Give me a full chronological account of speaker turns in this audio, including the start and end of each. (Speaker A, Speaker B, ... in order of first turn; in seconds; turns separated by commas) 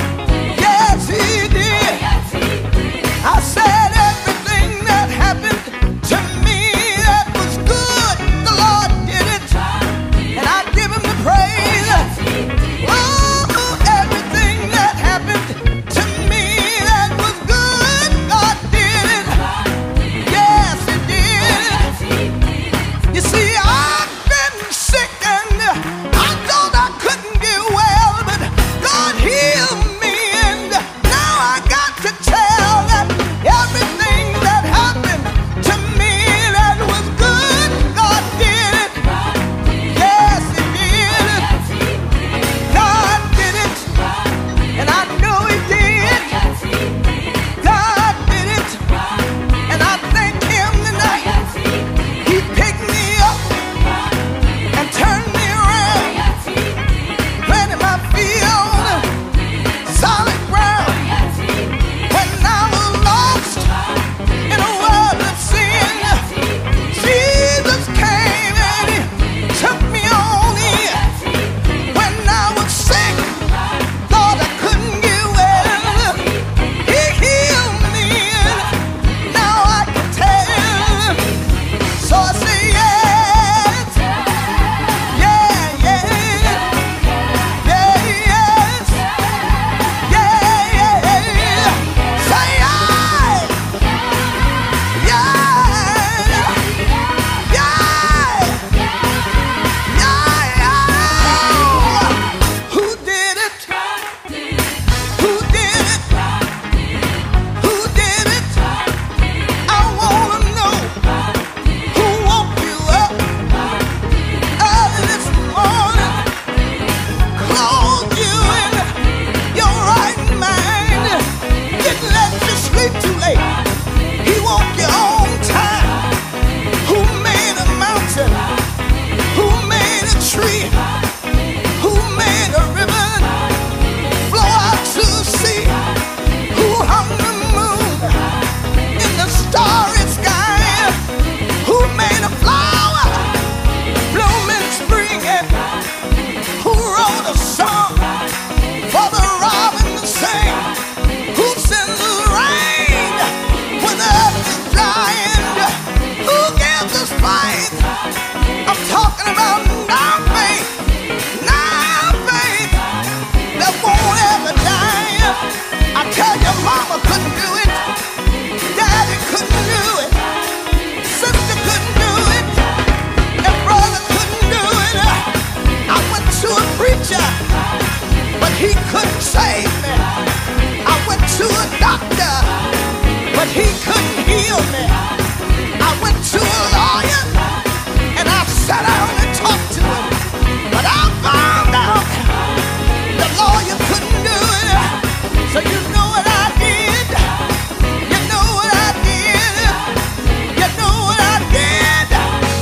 Speaker A: 0.5-2.1, Speaker A: 3.2-9.6, Speaker A: 10.3-12.1, Speaker A: 12.8-19.4, Speaker A: 20.2-22.0, Speaker A: 23.1-39.0, Speaker A: 39.9-41.6, Speaker A: 42.7-43.9, Speaker A: 44.7-46.4, Speaker A: 47.6-48.8, Speaker A: 49.7-51.5, Speaker A: 52.2-53.5, Speaker A: 54.7-56.3, Speaker A: 57.4-59.1, Speaker A: 59.8-61.1, Speaker A: 62.1-63.7, Speaker A: 64.5-66.3, Speaker A: 66.9-71.0, Speaker A: 71.9-73.4, Speaker A: 74.1-76.3, Speaker A: 76.8-78.7, Speaker A: 79.2-81.2, Speaker A: 81.9-84.1, Speaker A: 85.0-86.8, Speaker A: 87.6-89.1, Speaker A: 89.9-93.6, Speaker A: 95.0-98.6, Speaker A: 99.8-104.2, Speaker A: 105.2-106.2, Speaker A: 107.6-108.6, Speaker A: 109.7-111.0, Speaker A: 111.9-113.3, Speaker A: 114.6-116.2, Speaker A: 117.3-118.9, Speaker A: 119.5-123.5, Speaker A: 124.2-126.0, Speaker A: 126.8-128.5, Speaker A: 129.3-130.7, Speaker A: 131.8-133.4, Speaker A: 134.3-135.8, Speaker A: 136.5-138.2, Speaker A: 138.9-141.0, Speaker A: 141.6-143.3, Speaker A: 144.1-145.6, Speaker A: 146.6-148.1, Speaker A: 148.9-150.7, Speaker A: 151.3-157.8, Speaker A: 158.7-160.8, Speaker A: 161.3-162.8, Speaker A: 163.5-165.4, Speaker A: 165.9-167.8, Speaker A: 168.7-170.2, Speaker A: 171.0-172.6, Speaker A: 173.4-175.3, Speaker A: 175.9-177.4, Speaker A: 178.4-180.1, Speaker A: 180.8-182.6, Speaker A: 183.3-185.0, Speaker A: 185.8-187.4, Speaker A: 188.1-190.2, Speaker A: 190.7-192.3, Speaker A: 193.1-197.3, Speaker A: 198.0-199.9, Speaker A: 200.5-202.3